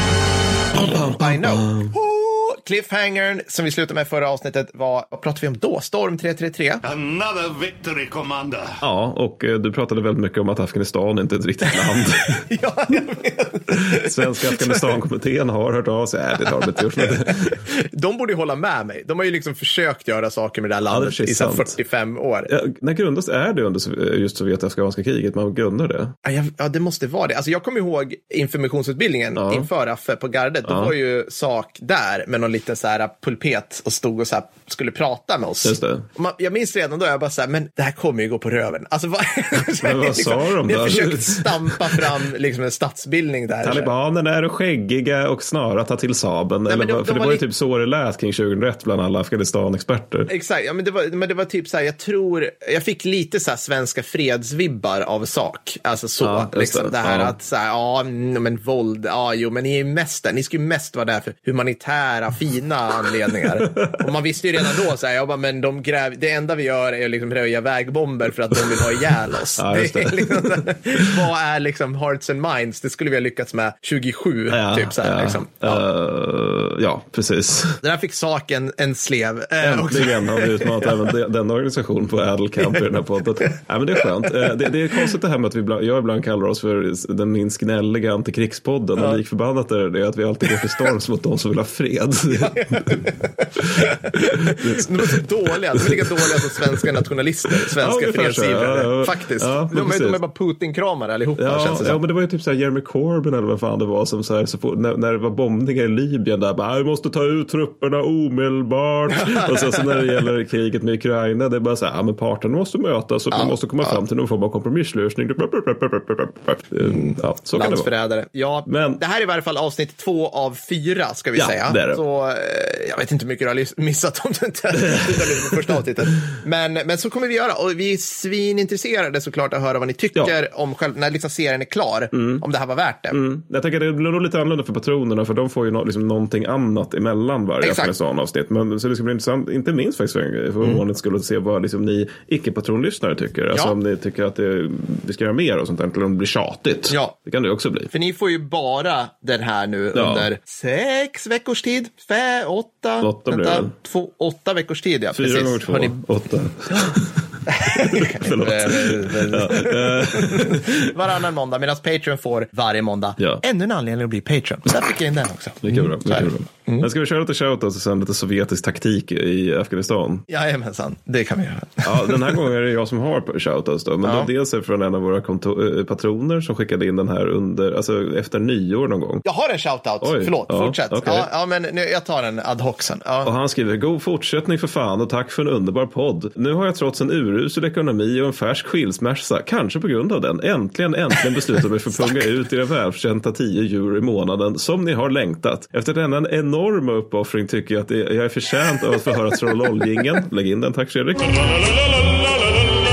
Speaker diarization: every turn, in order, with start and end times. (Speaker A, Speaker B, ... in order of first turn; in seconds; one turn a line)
Speaker A: 0.8-1.9
Speaker B: 0.8-6.8
Speaker C: 6.8-8.8
Speaker A: 8.8-12.4
Speaker B: 12.4-14.8
Speaker A: 13.9-17.6
Speaker B: 16.6-22.5
Speaker A: 20.9-21.8
Speaker A: 22.5-26.1
Speaker B: 26.2-43.9
Speaker A: 29.4-29.7
Speaker A: 30.7-30.9
Speaker A: 35.6-36.1
Speaker A: 39.8-42.1
Speaker A: 43.6-50.3
Speaker B: 46.7-47.4
Speaker B: 50.3-75.8
Speaker A: 56.2-57.4
Speaker A: 63.5-64.1
Speaker A: 69.5-71.3
Speaker A: 74.5-77.8
Speaker B: 77.8-81.1
Speaker A: 79.6-93.0
Speaker B: 84.2-84.6
Speaker B: 90.5-90.8
Speaker B: 92.3-102.0
Speaker A: 93.6-96.9
Speaker A: 97.5-100.2
Speaker A: 101.4-117.9
Speaker B: 109.2-110.0
Speaker B: 113.3-114.0
Speaker B: 116.9-133.2
Speaker A: 118.7-119.0
Speaker A: 121.4-122.0
Speaker A: 124.9-125.6
Speaker A: 132.1-132.4
Speaker A: 133.1-147.9
Speaker B: 137.6-137.9
Speaker B: 146.9-147.2
Speaker B: 147.9-156.0
Speaker A: 149.9-150.3
Speaker A: 153.0-153.7
Speaker A: 155.1-160.9
Speaker B: 156.7-157.0
Speaker B: 157.5-166.9
Speaker A: 163.2-163.4
Speaker A: 165.6-170.3
Speaker B: 170.3-172.4
Speaker A: 171.8-179.2
Speaker B: 174.0-174.3
Speaker B: 179.2-183.3
Speaker A: 180.0-181.3
Speaker A: 183.2-201.8
Speaker B: 191.9-192.2